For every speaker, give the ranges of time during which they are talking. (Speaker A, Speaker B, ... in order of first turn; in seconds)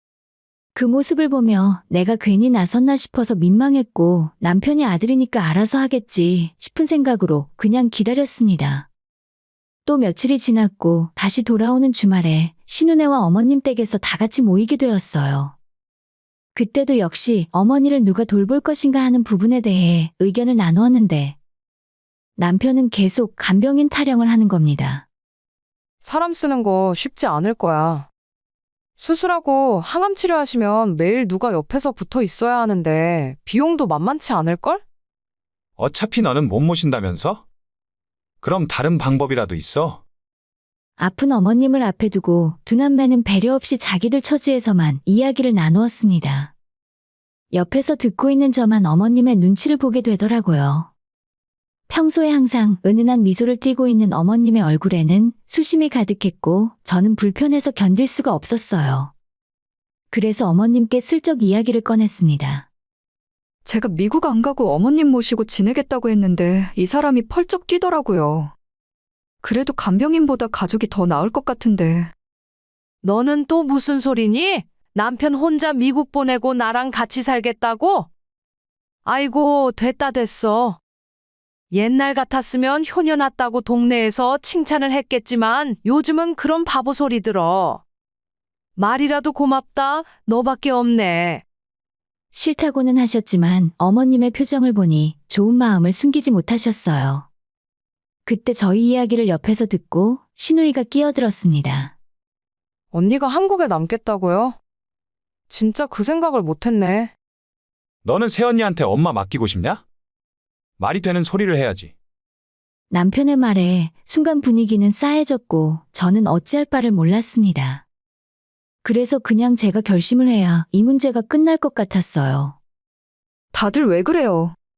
Speaker A: 0.7-8.9, 9.8-15.6, 16.5-21.4, 22.4-25.0, 41.0-46.5, 47.5-50.9, 51.9-59.1, 60.1-62.7, 92.3-97.3, 98.2-101.9, 112.9-117.8, 118.8-122.5
Speaker B: 26.0-28.1, 29.0-34.8, 73.0-78.1, 79.0-80.8, 81.7-87.8, 88.8-91.4, 102.9-104.6, 105.5-107.1
Speaker C: 35.8-37.4, 38.4-40.0, 108.0-109.8, 110.8-111.9
Speaker D: 63.6-68.5, 69.4-72.1, 123.5-124.5